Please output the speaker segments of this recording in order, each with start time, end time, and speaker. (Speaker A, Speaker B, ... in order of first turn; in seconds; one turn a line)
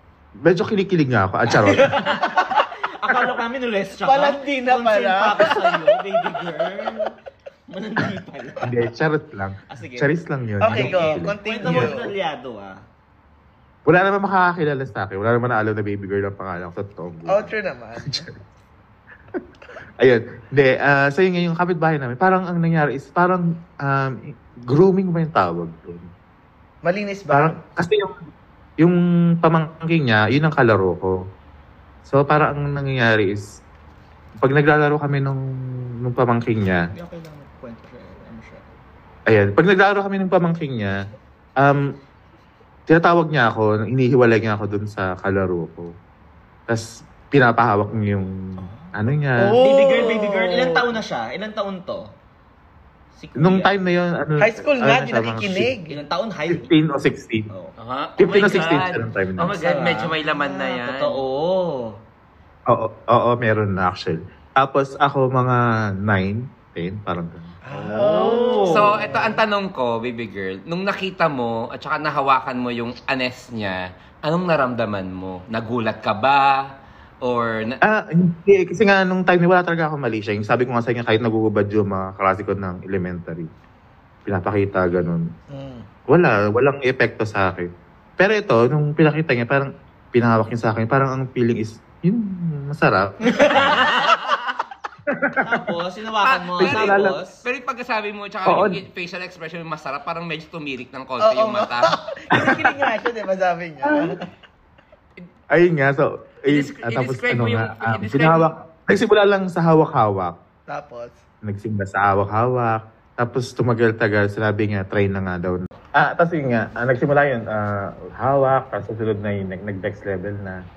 Speaker A: 0.4-2.0
Speaker B: 1.5-7.1
Speaker C: 4.0-5.8
Speaker B: 7.7-8.8
Speaker A: 8.6-11.9
Speaker B: 9.7-10.1
Speaker C: 10.6-12.1
Speaker B: 10.6-12.8
Speaker A: 13.8-17.5
Speaker C: 17.3-18.3
Speaker A: 20.0-26.1
Speaker C: 26.8-27.6
Speaker A: 27.3-28.1
Speaker A: 28.8-31.1
Speaker A: 32.1-33.4
Speaker A: 34.4-35.4
Speaker A: 36.0-36.9
Speaker B: 36.9-38.7
Speaker A: 39.3-41.0
Speaker A: 41.6-41.9
Speaker A: 42.9-45.9
Speaker A: 46.7-49.6
Speaker B: 48.6-48.9
Speaker C: 49.4-50.9
Speaker B: 49.6-52.1
Speaker B: 53.1-53.7
Speaker A: 53.4-55.7
Speaker C: 54.4-56.0
Speaker B: 55.9-56.7
Speaker A: 56.5-57.5
Speaker D: 57.8-61.2
Speaker A: 58.2-59.5
Speaker B: 58.3-58.8
Speaker B: 59.5-62.0
Speaker A: 62.7-67.5
Speaker C: 67.7-69.4
Speaker B: 67.7-69.0
Speaker D: 68.0-76.7
Speaker D: 77.2-77.8
Speaker A: 77.8-83.5
Speaker A: 84.2-85.3
Speaker C: 85.5-85.8
Speaker A: 86.1-93.9
Speaker B: 93.3-94.1
Speaker D: 93.9-94.4
Speaker A: 95.1-95.4
Speaker B: 95.4-97.4
Speaker D: 96.2-102.0
Speaker A: 96.6-97.2
Speaker A: 98.5-98.8
Speaker C: 101.2-104.2
Speaker A: 102.3-102.7
Speaker A: 103.8-104.2
Speaker A: 105.5-110.3
Speaker D: 106.5-108.5
Speaker C: 110.7-111.2
Speaker A: 111.4-120.6